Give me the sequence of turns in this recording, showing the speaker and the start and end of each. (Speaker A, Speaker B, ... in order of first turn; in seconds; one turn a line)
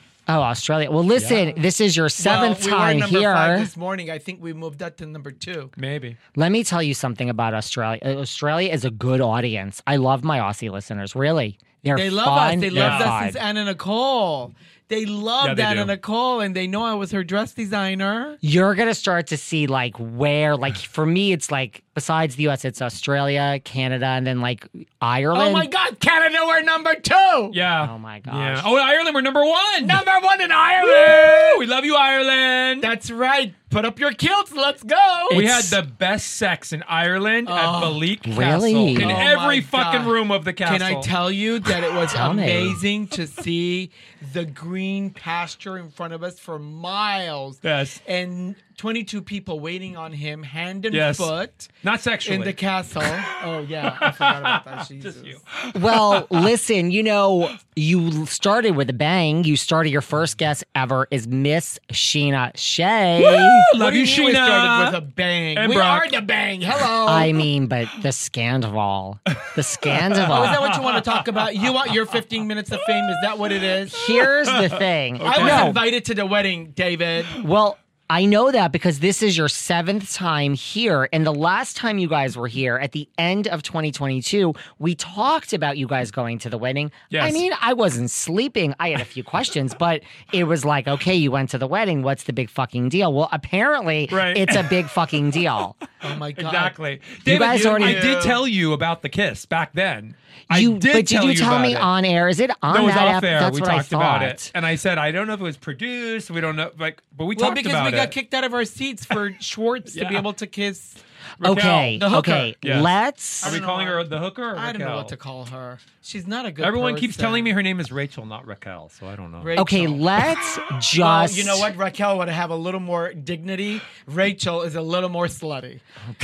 Speaker A: 0.3-3.7
Speaker B: 1.1-1.4
Speaker C: 2.2-5.7
Speaker B: 5.8-6.2
Speaker A: 6.3-13.4
Speaker C: 11.9-18.4
Speaker B: 12.7-13.2
Speaker B: 15.4-15.9
Speaker A: 18.4-25.7
Speaker C: 25.3-27.6
Speaker B: 27.5-30.0
Speaker A: 27.8-28.7
Speaker C: 29.8-31.6
Speaker B: 30.8-32.9
Speaker C: 32.8-35.8
Speaker B: 35.3-41.1
Speaker C: 37.4-38.1
Speaker A: 38.2-39.2
Speaker C: 38.9-51.7
Speaker A: 42.1-42.8
Speaker B: 47.6-48.0
Speaker B: 50.9-51.3
Speaker B: 51.8-53.3
Speaker C: 52.2-55.4
Speaker B: 53.8-56.5
Speaker A: 55.7-63.7
Speaker B: 63.2-65.0
Speaker C: 63.8-67.3
Speaker B: 65.5-66.2
Speaker A: 67.0-70.7
Speaker B: 69.3-71.9
Speaker C: 70.2-74.1
Speaker B: 72.8-75.8
Speaker A: 73.9-75.8
Speaker C: 75.2-77.4
Speaker A: 77.4-95.8
Speaker B: 87.1-87.4
Speaker B: 94.1-94.8
Speaker C: 96.0-96.7
Speaker B: 96.0-101.9
Speaker A: 97.2-98.2
Speaker C: 97.2-98.4
Speaker A: 100.5-104.5
Speaker B: 102.7-108.1
Speaker C: 107.3-111.0
Speaker B: 109.9-110.2
Speaker B: 111.4-112.1
Speaker A: 111.4-113.6
Speaker C: 112.0-112.5
Speaker B: 112.6-112.9
Speaker B: 113.4-115.1
Speaker C: 113.4-117.5
Speaker B: 116.6-119.6
Speaker C: 119.4-120.0
Speaker A: 119.6-121.7
Speaker C: 121.0-125.8